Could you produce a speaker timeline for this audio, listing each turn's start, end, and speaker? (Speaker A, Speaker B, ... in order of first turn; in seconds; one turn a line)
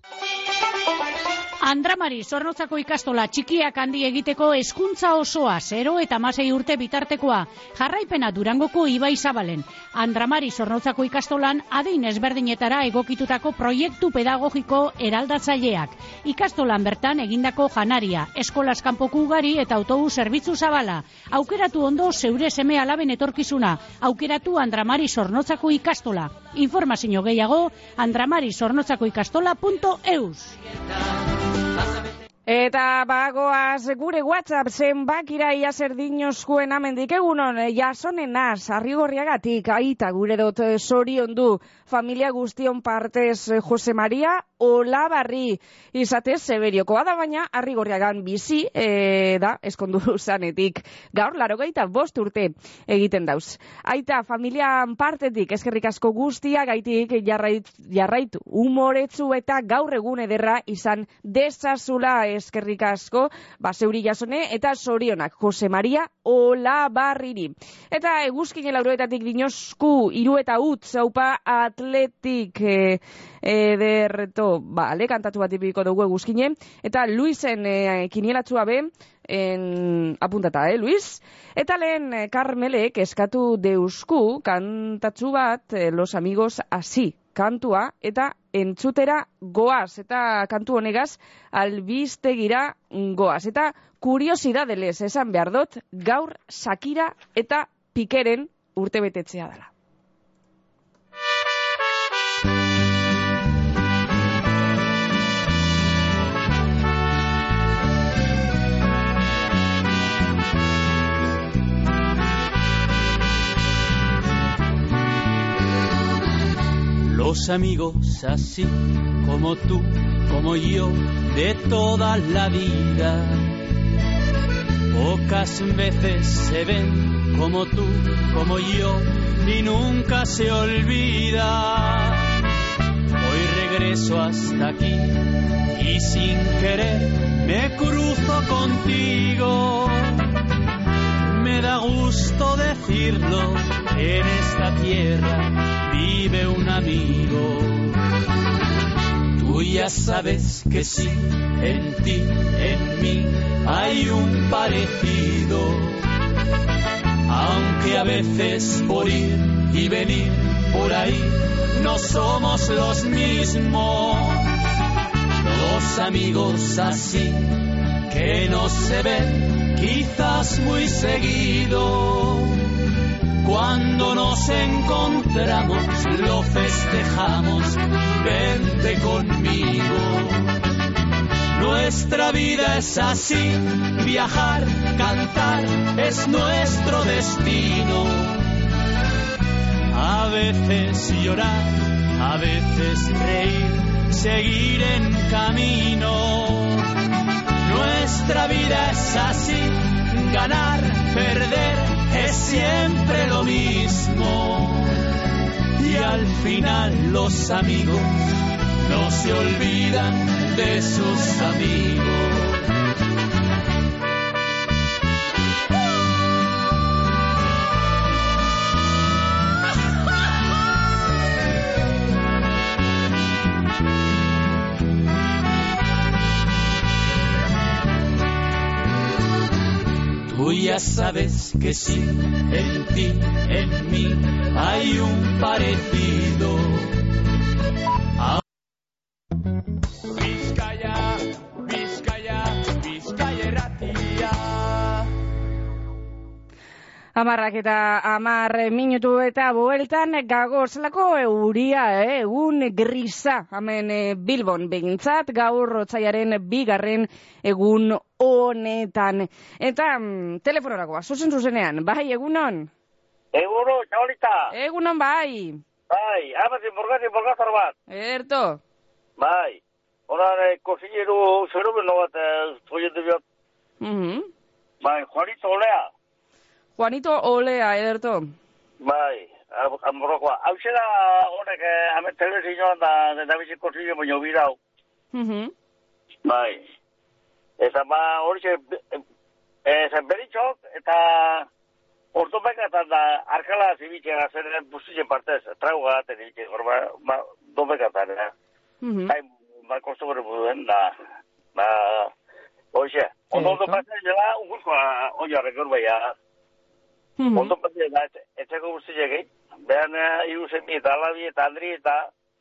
Speaker A: 1.6-30.6
Speaker B: 32.5-99.7
Speaker C: 117.0-123.5
Speaker C: 124.9-132.4
Speaker C: 133.2-140.3
Speaker C: 141.2-148.0
Speaker C: 149.4-156.0
Speaker C: 157.3-164.5
Speaker C: 165.4-172.7
Speaker C: 173.4-180.5
Speaker C: 181.5-188.4
Speaker C: 189.9-196.9
Speaker C: 197.6-205.0
Speaker C: 205.8-208.3
Speaker C: 208.8-212.6
Speaker C: 230.3-236.9
Speaker C: 240.2-245.0
Speaker B: 247.2-262.7
Speaker D: 263.4-264.5
Speaker B: 264.5-265.6
Speaker D: 265.9-267.7
Speaker B: 267.9-268.6
Speaker D: 269.2-273.2
Speaker B: 273.8-274.3
Speaker D: 274.8-275.9
Speaker B: 276.8-278.3
Speaker D: 278.8-284.6
Speaker B: 285.1-285.5
Speaker D: 286.2-286.6
Speaker D: 287.6-289.0
Speaker D: 289.7-291.5
Speaker D: 292.1-298.3
Speaker B: 298.8-299.1
Speaker D: 299.1-300.9
Speaker D: 301.6-302.1
Speaker D: 302.7-306.1
Speaker B: 303.3-303.8
Speaker B: 307.2-307.5
Speaker D: 307.4-312.1